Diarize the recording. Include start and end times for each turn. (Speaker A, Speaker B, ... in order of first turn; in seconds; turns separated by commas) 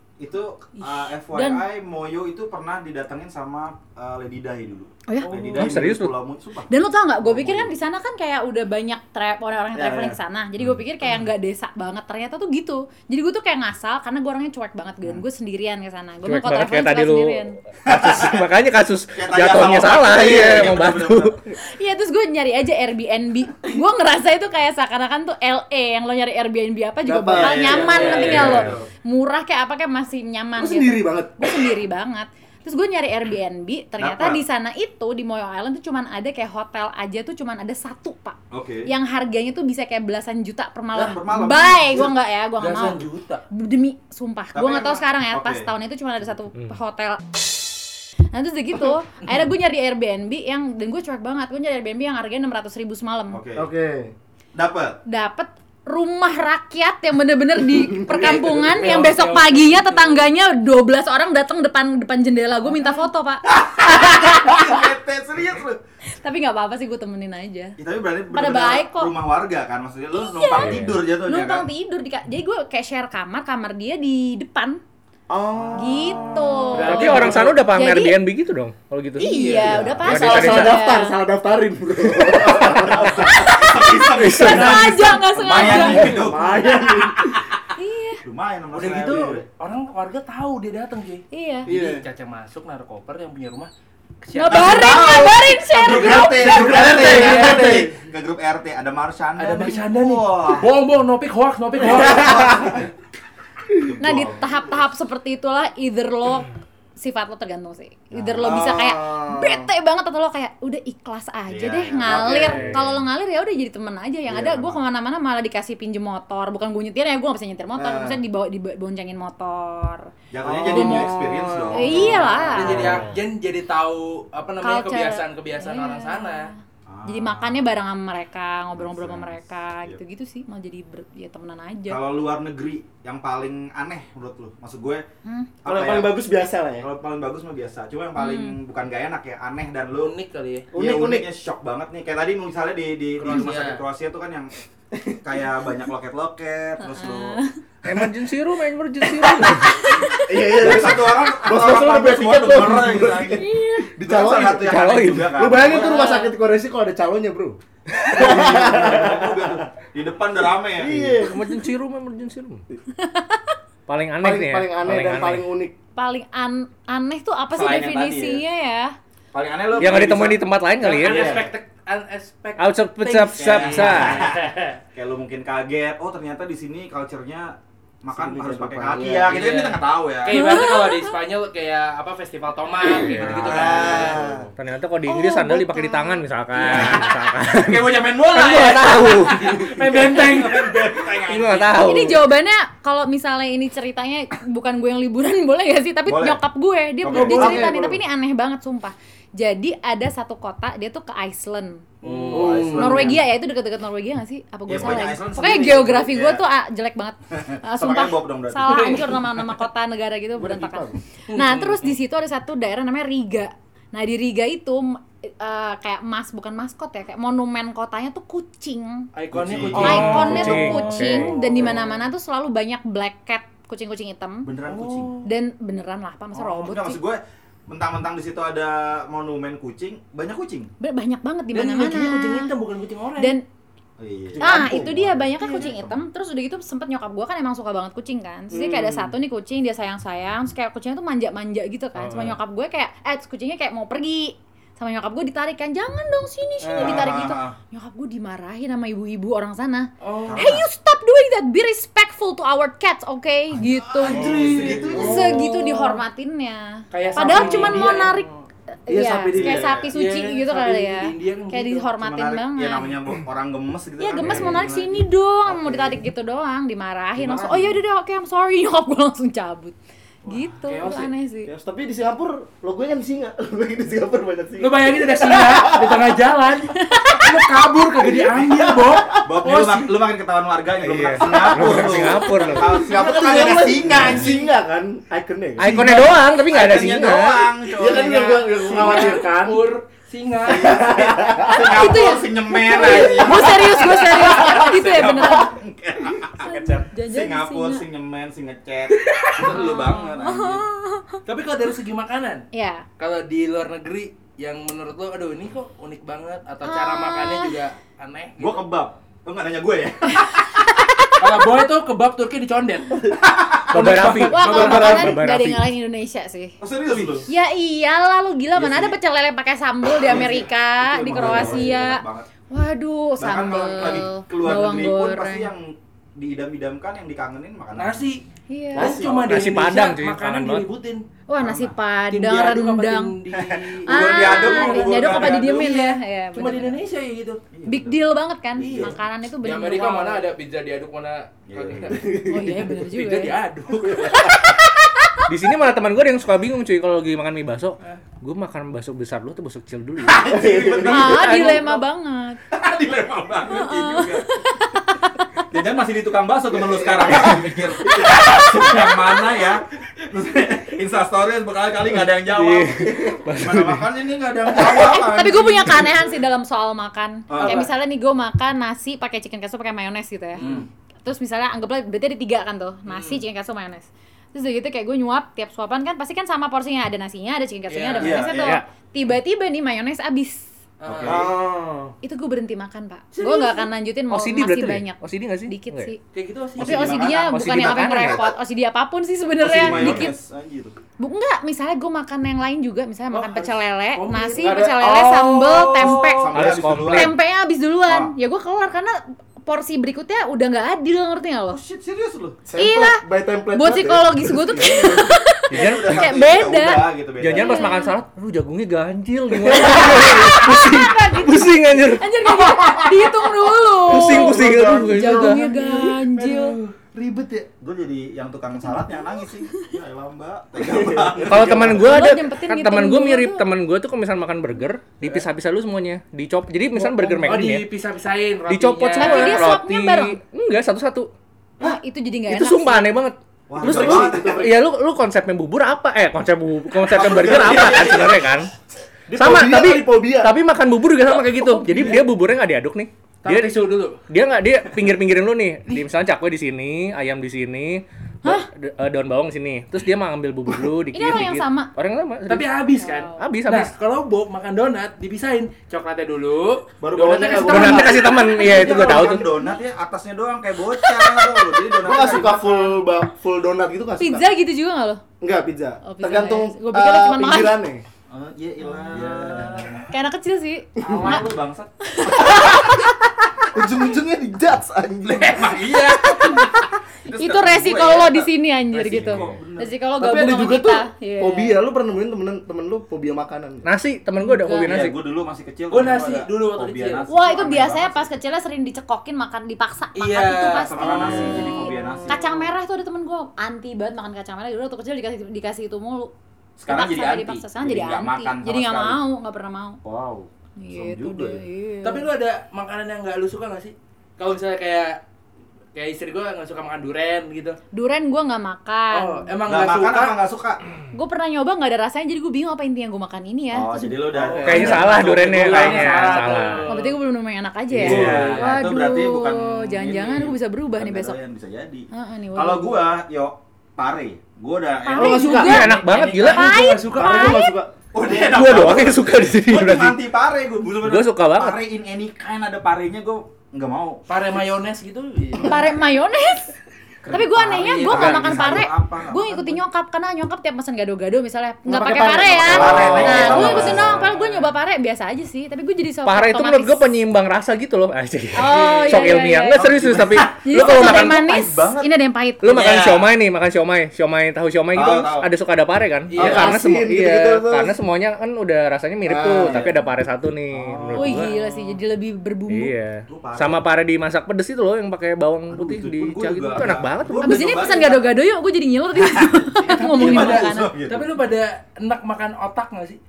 Speaker A: 0.2-7.7, Speaker B: 0.8-1.6, Speaker B: 5.1-5.6, Speaker C: 5.2-5.6, Speaker D: 5.5-6.1, Speaker B: 6.7-17.6, Speaker A: 9.8-10.2, Speaker D: 16.2-21.4, Speaker A: 17.9-18.4, Speaker A: 19.1-21.4, Speaker B: 21.7-47.8, Speaker E: 27.0-28.4, Speaker A: 27.3-28.9, Speaker C: 27.7-28.7, Speaker E: 30.6-31.7, Speaker A: 34.0-34.4, Speaker A: 38.5-38.9, Speaker A: 40.9-42.1, Speaker C: 42.6-43.4, Speaker A: 44.5-45.7, Speaker B: 48.3-53.4, Speaker A: 53.3-53.7, Speaker E: 53.5-54.1, Speaker A: 54.5-55.0, Speaker B: 55.0-64.8, Speaker E: 57.7-59.0, Speaker C: 58.1-60.3, Speaker A: 63.5-65.8, Speaker B: 66.2-67.8, Speaker A: 67.8-71.7, Speaker B: 68.3-69.1, Speaker B: 70.1-74.8, Speaker D: 70.6-71.0, Speaker E: 75.3-77.4, Speaker B: 75.7-78.2, Speaker C: 76.7-77.5, Speaker D: 76.8-79.3, Speaker B: 79.2-81.2, Speaker C: 79.2-79.8, Speaker E: 79.6-83.4, Speaker D: 80.0-80.9, Speaker A: 82.6-87.4, Speaker B: 83.1-86.1, Speaker D: 84.1-85.0, Speaker E: 85.5-87.4, Speaker B: 87.8-88.2, Speaker A: 88.2-89.4, Speaker C: 88.7-93.7, Speaker B: 91.3-91.7, Speaker E: 91.7-92.0, Speaker C: 94.2-95.2, Speaker B: 94.3-96.6, Speaker A: 94.5-100.7, Speaker C: 95.9-97.8, Speaker E: 96.0-97.9, Speaker C: 99.4-102.9, Speaker A: 101.8-102.8, Speaker E: 102.2-102.5, Speaker A: 103.8-104.9, Speaker B: 104.0-120.1, Speaker A: 108.2-109.6, Speaker A: 111.5-112.9, Speaker D: 112.4-113.0, Speaker A: 114.3-114.8, Speaker A: 117.8-118.2, Speaker A: 120.3-123.0, Speaker E: 120.4-122.8, Speaker B: 120.7-121.1, Speaker B: 121.7-123.0, Speaker C: 122.5-126.5, Speaker B: 124.6-132.0, Speaker A: 126.8-127.6, Speaker A: 128.7-130.0, Speaker A: 131.9-135.0, Speaker B: 135.2-135.5, Speaker A: 135.6-136.2, Speaker E: 135.6-136.9, Speaker A: 136.8-140.1, Speaker B: 138.2-138.6, Speaker C: 139.9-140.7, Speaker E: 140.7-141.3, Speaker A: 140.7-144.5, Speaker C: 143.2-143.8, Speaker A: 145.2-147.4, Speaker B: 146.8-147.5, Speaker D: 147.8-149.9, Speaker A: 149.2-149.5, Speaker B: 149.6-150.3, Speaker E: 150.2-159.6, Speaker A: 150.5-156.1, Speaker B: 153.4-153.9, Speaker D: 154.6-155.4, Speaker B: 155.6-156.3, Speaker A: 158.1-161.2, Speaker E: 160.8-161.5, Speaker D: 161.2-162.6, Speaker B: 163.0-163.5, Speaker D: 163.9-165.5, Speaker E: 164.2-165.7, Speaker B: 165.9-168.9, Speaker A: 167.5-168.4, Speaker A: 169.3-170.4, Speaker D: 169.8-171.4, Speaker C: 170.8-174.7, Speaker A: 171.0-171.5, Speaker D: 172.6-174.2, Speaker A: 173.4-180.4, Speaker E: 178.1-179.5, Speaker C: 179.0-184.4, Speaker B: 180.3-181.1, Speaker D: 182.9-183.8, Speaker A: 183.0-184.5, Speaker E: 183.5-184.5, Speaker D: 184.6-189.8, Speaker B: 185.0-186.2, Speaker A: 186.6-191.8, Speaker C: 186.6-187.1, Speaker C: 188.9-191.0, Speaker D: 191.2-192.3, Speaker B: 191.8-201.8, Speaker A: 196.1-196.4, Speaker A: 197.0-197.9, Speaker E: 197.1-198.0, Speaker C: 202.0-203.1, Speaker A: 202.3-203.2, Speaker E: 202.3-202.8, Speaker B: 202.7-219.1, Speaker A: 204.7-206.4, Speaker A: 207.3-209.2, Speaker C: 208.6-209.1, Speaker E: 210.4-211.0, Speaker C: 211.3-211.9, Speaker C: 219.1-221.8, Speaker A: 219.3-220.8, Speaker D: 219.7-221.3, Speaker B: 219.8-224.5, Speaker A: 221.5-221.8, Speaker A: 224.4-225.1, Speaker C: 224.6-225.3, Speaker B: 225.2-227.0, Speaker A: 226.3-230.7, Speaker B: 230.8-232.5, Speaker C: 231.5-233.3, Speaker B: 233.2-233.4, Speaker A: 234.0-236.0, Speaker E: 234.3-234.9, Speaker B: 234.4-254.3, Speaker C: 235.4-235.7, Speaker E: 238.5-239.1, Speaker D: 242.0-242.4, Speaker C: 246.6-247.1, Speaker A: 246.7-247.6, Speaker C: 250.0-250.5, Speaker A: 250.2-250.6, Speaker A: 253.7-255.5, Speaker C: 254.0-255.9, Speaker E: 254.3-255.1, Speaker B: 254.9-258.3, Speaker C: 256.9-258.2, Speaker A: 257.2-258.2, Speaker B: 258.9-262.9, Speaker E: 258.9-259.6, Speaker C: 259.3-261.9, Speaker A: 259.3-259.9, Speaker A: 262.0-265.9, Speaker B: 264.0-271.5, Speaker A: 267.2-267.8, Speaker C: 270.3-271.1, Speaker E: 271.4-276.1, Speaker C: 274.6-279.9, Speaker B: 276.7-277.4, Speaker E: 278.0-279.3, Speaker A: 279.2-284.5, Speaker D: 280.8-282.8, Speaker E: 281.2-286.2, Speaker D: 285.6-287.5, Speaker A: 285.7-289.2, Speaker E: 287.6-289.6, Speaker C: 287.9-290.8, Speaker A: 290.4-300.7, Speaker E: 290.5-291.7, Speaker B: 291.5-295.6, Speaker E: 293.0-293.5, Speaker B: 296.4-297.8, Speaker C: 299.0-299.5, Speaker B: 299.4-301.2, Speaker C: 301.2-302.5, Speaker B: 302.5-302.9, Speaker C: 303.0-308.6, Speaker B: 306.6-307.6, Speaker A: 308.4-310.6, Speaker B: 310.2-311.2, Speaker C: 311.2-313.1, Speaker A: 313.2-314.0, Speaker C: 313.7-315.2, Speaker D: 313.7-315.7, Speaker B: 314.3-316.6, Speaker A: 316.6-317.3, Speaker C: 316.9-317.2, Speaker B: 317.3-325.5, Speaker A: 318.5-319.0, Speaker A: 320.0-322.3, Speaker E: 321.2-321.5, Speaker A: 323.2-328.1, Speaker C: 327.8-328.2, Speaker B: 328.5-329.0, Speaker E: 328.7-329.4, Speaker C: 328.7-331.0, Speaker D: 329.2-330.7, Speaker B: 331.3-333.1, Speaker A: 331.4-331.7, Speaker C: 332.1-337.4, Speaker A: 333.3-335.7, Speaker B: 333.9-336.8, Speaker A: 337.5-338.0, Speaker B: 337.6-340.2, Speaker A: 338.6-339.0, Speaker C: 338.6-344.2, Speaker A: 341.5-342.0, Speaker E: 341.9-342.6, Speaker B: 342.2-345.2, Speaker D: 345.3-350.3, Speaker A: 350.0-351.8, Speaker E: 350.2-351.2, Speaker B: 350.8-352.4, Speaker A: 352.5-354.3, Speaker B: 353.5-355.3, Speaker A: 355.5-366.1, Speaker B: 357.9-359.1, Speaker D: 362.3-363.9, Speaker B: 364.5-370.5, Speaker A: 367.3-367.7, Speaker C: 367.4-367.6, Speaker C: 370.4-370.6, Speaker A: 370.4-370.7, Speaker B: 371.0-380.5, Speaker C: 372.9-373.2, Speaker C: 377.7-378.2, Speaker A: 378.0-378.6, Speaker D: 378.4-378.6, Speaker C: 380.8-381.3, Speaker A: 380.9-381.4, Speaker E: 381.0-381.9, Speaker B: 382.0-386.0, Speaker C: 383.1-383.7, Speaker D: 384.1-385.9, Speaker C: 386.1-387.0, Speaker A: 386.6-388.2, Speaker B: 386.6-390.1, Speaker D: 387.1-388.2, Speaker A: 389.4-390.8, Speaker B: 391.0-401.6, Speaker C: 393.1-394.9, Speaker E: 394.4-395.7, Speaker A: 395.4-397.1, Speaker D: 396.3-397.1, Speaker A: 397.9-398.1, Speaker A: 401.5-402.4, Speaker E: 402.5-405.1, Speaker B: 402.6-407.9, Speaker A: 405.5-407.8, Speaker D: 405.5-406.1, Speaker D: 407.2-412.2, Speaker E: 409.4-410.4, Speaker B: 409.5-416.6, Speaker D: 413.8-415.5, Speaker E: 413.9-417.5, Speaker C: 416.2-416.7, Speaker A: 417.6-421.9, Speaker B: 418.7-419.2, Speaker E: 420.6-421.8, Speaker D: 421.2-427.7, Speaker B: 421.8-423.4, Speaker C: 427.2-429.5, Speaker D: 428.5-431.1, Speaker B: 428.9-430.2, Speaker B: 431.6-432.9, Speaker D: 432.3-438.5, Speaker A: 433.5-434.5, Speaker E: 433.6-434.6, Speaker A: 436.9-438.3, Speaker E: 437.0-437.8, Speaker E: 439.1-440.4, Speaker D: 439.1-443.6, Speaker B: 441.3-442.0, Speaker C: 443.2-444.0, Speaker D: 444.1-452.5, Speaker B: 450.9-451.7, Speaker C: 452.3-458.0, Speaker B: 452.8-453.2, Speaker D: 453.2-453.7, Speaker A: 456.8-462.8, Speaker E: 456.8-458.3, Speaker D: 457.4-459.3, Speaker B: 458.1-458.8, Speaker B: 460.8-461.4, Speaker E: 461.8-464.3, Speaker B: 464.0-465.0, Speaker E: 465.2-467.8, Speaker B: 465.8-467.6, Speaker A: 468.1-469.9, Speaker B: 468.6-469.2, Speaker E: 468.9-469.8, Speaker C: 468.9-469.7, Speaker B: 469.9-471.2, Speaker A: 470.8-472.7, Speaker E: 470.8-471.2, Speaker B: 471.8-472.9, Speaker E: 473.5-475.6, Speaker A: 475.1-479.7, Speaker C: 475.4-476.3, Speaker B: 476.1-476.5, Speaker B: 477.1-481.6, Speaker E: 480.0-483.7, Speaker D: 483.6-485.0, Speaker B: 484.2-484.7, Speaker A: 484.6-488.1, Speaker C: 485.7-487.1, Speaker B: 487.1-496.1, Speaker C: 489.9-491.0, Speaker A: 490.5-492.2, Speaker A: 496.6-499.0, Speaker B: 496.7-499.8, Speaker A: 499.8-501.4, Speaker B: 500.6-502.1, Speaker C: 501.8-505.0, Speaker C: 505.7-507.6, Speaker B: 507.7-509.3, Speaker C: 508.9-510.2, Speaker A: 509.4-510.6, Speaker B: 510.9-514.2, Speaker A: 513.5-516.6, Speaker C: 514.1-517.0, Speaker D: 514.4-516.7, Speaker B: 516.7-521.2, Speaker A: 517.7-526.4, Speaker D: 517.8-518.4, Speaker C: 517.8-518.5, Speaker B: 521.9-522.9, Speaker B: 524.8-527.6, Speaker E: 524.9-525.7, Speaker D: 525.3-526.6, Speaker C: 526.2-527.4, Speaker E: 526.9-528.2, Speaker A: 527.9-534.0, Speaker D: 528.1-530.0, Speaker D: 530.8-531.6, Speaker C: 534.1-535.7, Speaker B: 535.4-536.5, Speaker A: 537.0-539.6, Speaker B: 537.1-546.9, Speaker C: 537.5-538.2, Speaker D: 537.9-538.4, Speaker E: 541.7-543.6, Speaker D: 542.4-543.8, Speaker A: 542.4-544.1, Speaker C: 542.8-544.5, Speaker D: 546.0-551.2, Speaker B: 548.3-549.7, Speaker C: 548.5-549.1, Speaker A: 549.5-551.9, Speaker B: 550.4-552.5, Speaker D: 552.4-561.4, Speaker A: 552.4-553.1, Speaker A: 554.7-555.3, Speaker C: 556.1-556.5, Speaker E: 556.1-557.8, Speaker E: 559.0-559.7, Speaker A: 559.4-559.7, Speaker A: 560.5-561.0, Speaker B: 560.9-562.7, Speaker D: 562.5-567.4, Speaker A: 563.1-563.6, Speaker A: 565.5-568.1, Speaker B: 567.2-570.7, Speaker A: 568.9-571.1, Speaker C: 569.6-573.0